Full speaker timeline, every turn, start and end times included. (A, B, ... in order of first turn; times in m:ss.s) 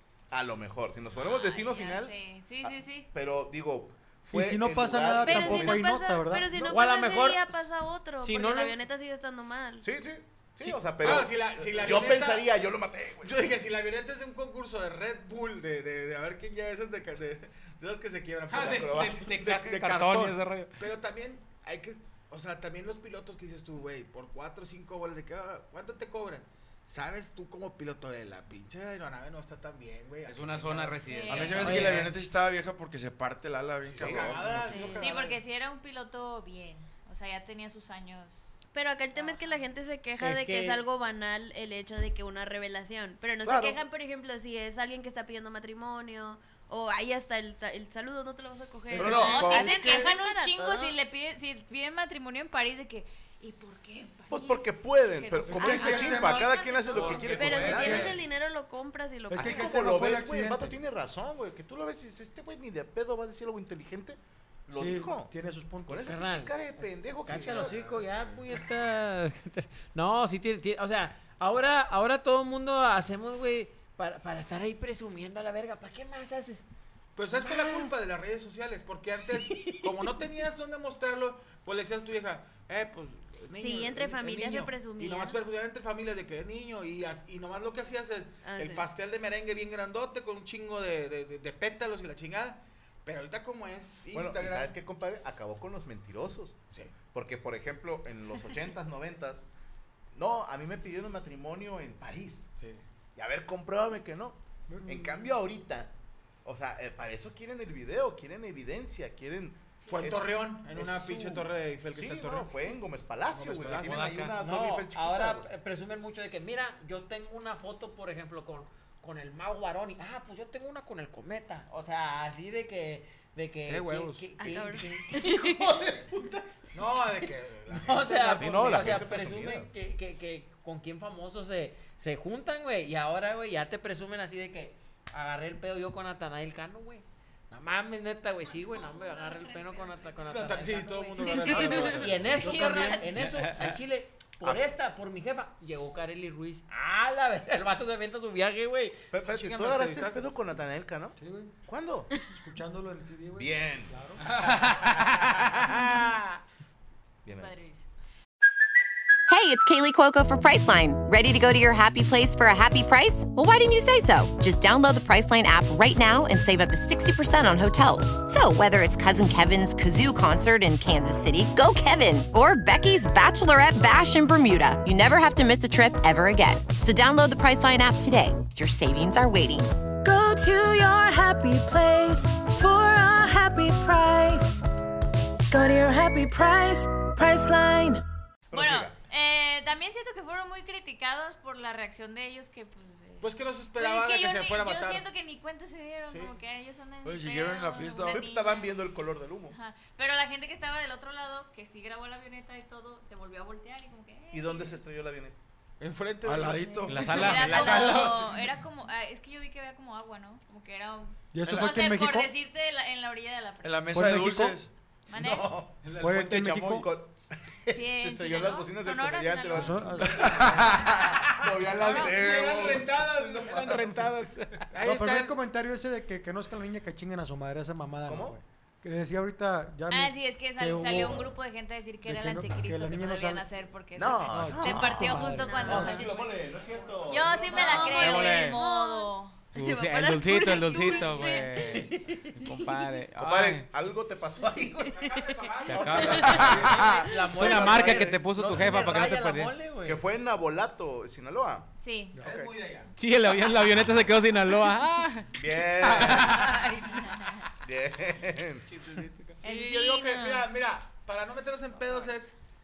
0:00.3-0:05.8 A
0:01.1-0:03.1 B
0:04.3-0:06.6 C
0:05.2-0:09.8 D
0:06.6-0:08.8 E
0:09.8-0:13.4 A
0:10.6-0:12.5 F
0:13.2-0:32.1 F
0:18.5-0:20.8 G
0:18.6-0:19.3 A
0:30.2-0:32.1 G
0:31.1-0:31.8 B
0:31.3-0:34.8 H
0:31.7-0:32.0 E
0:33.8-0:35.4 F
0:34.0-0:34.4 A
0:34.6-0:35.1 D
0:35.0-0:38.5 B
0:38.7-0:50.9 D
0:39.1-0:39.6 B
0:40.2-0:40.8 E
0:43.4-0:43.8 A
0:48.9-0:50.0 C
0:48.9-0:49.7 A
0:49.0-0:57.7 B
0:54.3-0:58.1 A
0:55.5-0:56.6 C
0:55.6-0:56.2 D
0:57.0-0:58.0 F
0:57.2-0:59.8 D
0:57.4-0:58.1 C
0:59.3-1:00.8 C
0:59.4-1:05.3 A
1:04.7-1:06.1 C
1:05.8-1:08.0 A
1:06.0-1:06.6 E
1:07.2-1:16.6 E
1:07.3-1:08.0 F
1:17.2-1:34.7 F
1:17.4-1:17.9 E
1:19.4-1:20.1 E
1:23.6-1:25.4 D
1:28.4-1:28.9 D
1:34.1-1:39.5 A
1:40.1-1:42.5 A
1:42.6-1:42.8 F
1:43.2-1:45.9 A
1:44.7-1:45.3 C
1:46.4-1:55.5 A
1:49.9-1:52.5 F
1:53.3-1:54.0 F
1:53.6-1:54.3 G
1:54.4-2:05.2 E
2:03.7-2:04.2 F
2:04.4-2:05.8 D
2:05.1-2:06.4 A
2:06.7-2:09.1 F
2:07.7-2:29.0 E
2:08.3-2:09.7 A
2:18.4-2:20.3 B
2:20.2-2:23.2 F
2:21.2-2:21.6 B
2:22.4-2:23.0 D
2:23.2-2:23.8 G
2:29.1-2:32.1 A
2:29.2-2:30.3 F
2:31.2-2:31.5 C
2:32.3-2:34.2 C
2:33.4-2:33.9 A
2:34.3-2:35.4 G
2:35.8-2:36.2 E
2:37.2-2:37.5 A
2:37.3-2:37.8 B
2:39.3-2:59.7 I
3:00.0-3:04.6 J
3:05.5-3:08.0 J
3:08.5-3:09.0 A
3:08.5-3:18.7 B
3:13.2-3:15.1 F
3:16.1-3:16.3 F
3:17.0-3:18.2 H
3:18.0-3:19.6 A
3:19.5-3:24.8 B
3:24.3-3:25.4 A
3:25.8-3:28.4 F
3:26.2-3:27.7 H
3:26.9-3:28.2 G
3:26.9-3:34.0 B
3:31.3-3:32.3 C
3:31.4-3:31.7 A
3:33.6-3:34.7 H
3:33.9-3:34.6 C
3:35.1-3:35.5 B
3:35.1-3:36.0 A
3:35.8-3:36.1 F
3:36.0-3:36.9 C
3:36.0-3:36.8 G
3:36.6-3:44.1 A
3:37.7-3:40.4 B
3:39.5-3:40.3 C
3:40.3-3:40.8 F
3:41.7-3:44.7 G
3:44.7-3:45.4 F
3:44.8-3:51.4 C
3:48.0-3:48.4 A
3:49.9-3:56.1 B
3:52.0-3:53.4 C
3:54.0-3:58.2 A
3:54.2-3:56.0 C
3:54.7-3:56.2 D
3:57.1-3:59.4 B
3:57.1-4:01.8 D
3:58.0-3:58.5 E
3:59.5-4:03.6 G
4:01.6-4:02.4 E
4:03.2-4:05.2 A
4:04.8-4:06.9 F
4:05.7-4:06.7 G
4:05.7-4:08.2 A
4:06.2-4:10.0 E
4:07.3-4:09.5 G
4:09.8-4:11.7 A
4:11.8-4:12.2 B
4:12.2-4:12.9 F
4:12.2-4:12.5 A
4:13.0-4:16.6 G
4:15.3-4:16.5 A
4:16.4-4:17.4 B
4:17.6-4:18.6 A
4:19.1-4:22.3 F
4:19.4-4:20.5 B